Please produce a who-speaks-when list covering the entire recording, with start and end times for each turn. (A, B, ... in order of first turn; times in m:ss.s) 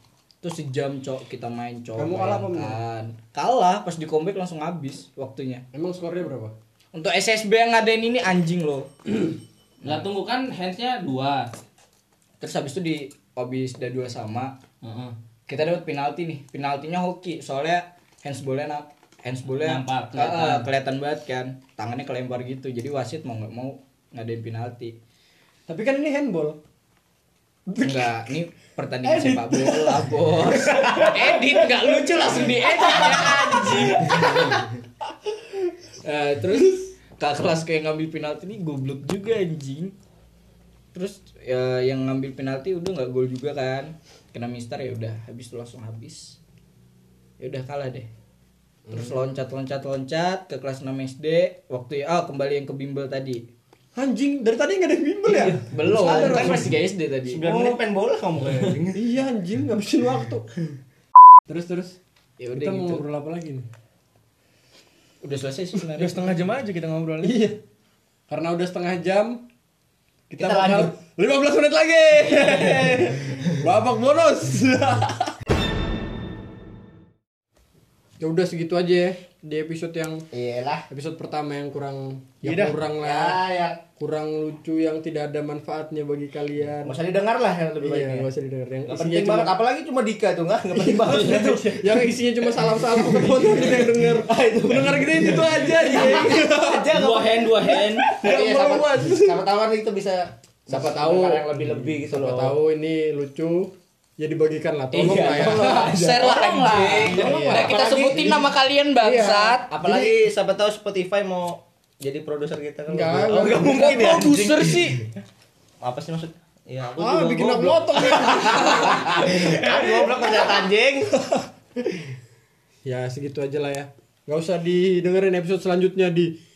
0:00.4-0:05.6 A
0:02.0-0:02.8 B
0:05.7-0:06.5 B
0:06.9-0:08.9 A
0:09.8-0:11.5 C
0:12.4-0:14.5 A
0:14.8-0:15.2 C
0:15.5-0:25.0 A
0:19.6-0:20.7 C
0:25.7-0:26.6 B
0:27.7-0:28.1 B
0:27.8-0:34.6 A
0:29.1-0:30.1 B
0:33.0-0:33.4 C
0:34.0-0:34.7 B
0:36.0-0:40.0 A
0:40.9-0:46.4 A
0:47.4-0:48.1 A
0:48.9-0:49.2 B
0:48.9-0:53.4 A
0:54.0-0:56.7 B
0:55.3-0:55.6 C
0:55.7-0:57.4 A
0:56.2-0:56.4 C
0:57.3-0:59.0 D
0:57.4-0:57.8 B
0:58.9-1:00.5 B
1:01.5-1:02.0 B
1:02.4-1:03.0 A
1:02.6-1:03.7 B
1:05.2-1:06.2 A
1:05.9-1:07.5 E
1:07.2-1:07.6 B
1:08.3-1:09.5 B
1:10.3-1:15.3 B
1:10.4-1:10.9 D
1:18.2-1:20.3 B
1:20.3-1:20.9 D
1:20.9-1:23.4 B
1:22.4-1:22.8 E
1:22.9-1:23.8 D
1:24.0-1:27.0 B
1:26.8-1:28.3 D
1:27.8-1:29.6 B
1:28.9-1:31.8 D
1:30.7-1:36.9 B
1:32.8-1:42.6 D
1:36.9-1:38.1 C
1:38.1-1:39.4 B
1:40.7-1:48.3 B
1:44.9-1:48.4 D
1:45.2-1:49.7 A
1:47.1-1:47.4 C
1:49.0-1:50.2 B
1:49.7-1:55.1 D
1:52.9-1:54.4 B
1:53.7-1:55.1 A
1:55.8-2:01.1 D
1:57.0-2:00.3 B
2:02.8-2:06.4 B